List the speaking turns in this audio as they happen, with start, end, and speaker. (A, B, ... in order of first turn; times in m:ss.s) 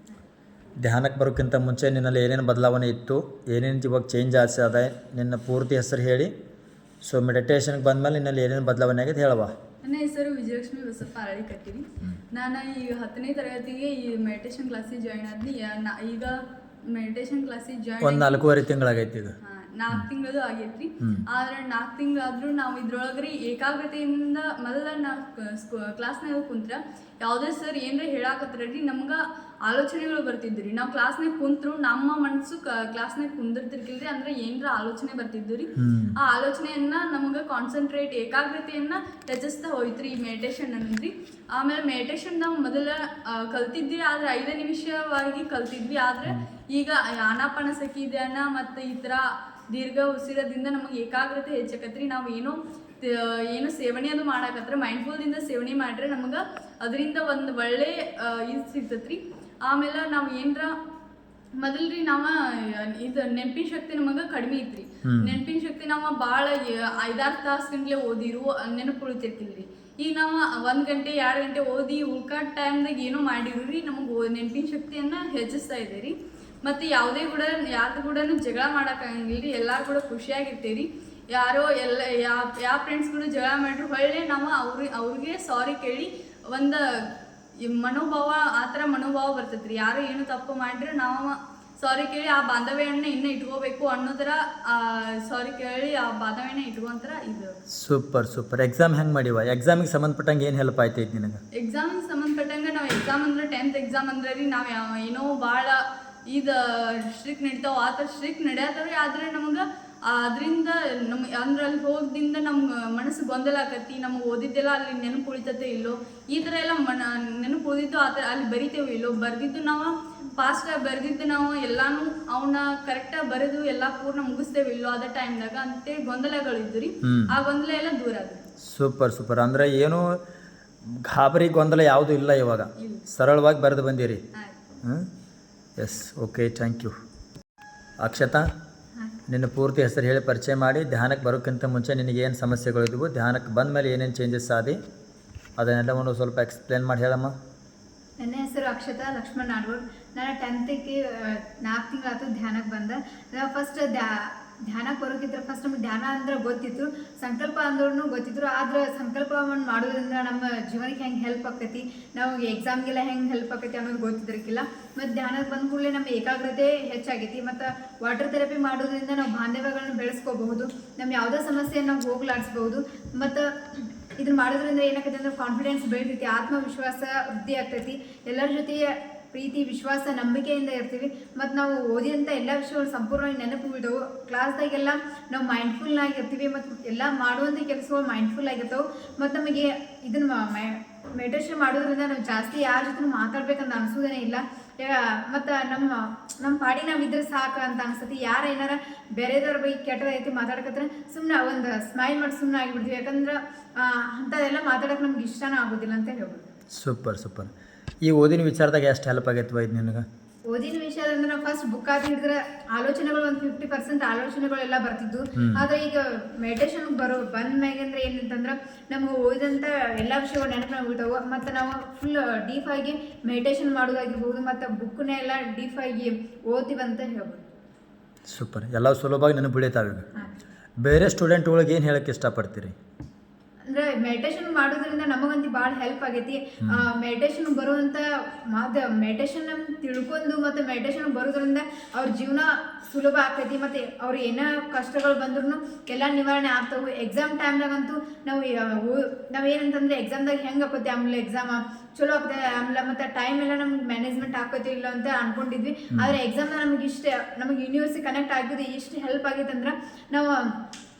0:00.8-0:06.3 A
0:07.0-0:09.5 A
0:09.8-0:18.5 B
0:18.0-0:19.4 A
0:19.4-1:00.7 B
0:35.8-0:36.2 A
1:01.6-1:26.8 B
1:05.0-1:05.4 A
1:27.6-1:37.5 B
1:37.7-1:41.4 A
1:41.6-1:45.8 B
1:46.3-2:08.4 B
2:07.0-2:07.3 A
2:08.6-2:10.0 A
2:10.9-2:14.2 A
2:12.8-2:13.0 B
2:14.8-2:15.1 A
2:15.8-2:16.9 A
2:18.0-2:18.4 A
2:19.3-2:24.8 A
2:25.6-2:27.3 A
2:28.2-3:26.4 C
3:26.8-3:27.5 A
3:28.0-3:30.0 A
3:30.5-3:47.4 C
3:48.3-3:50.1 A
3:50.8-3:52.7 A
3:53.7-4:20.5 C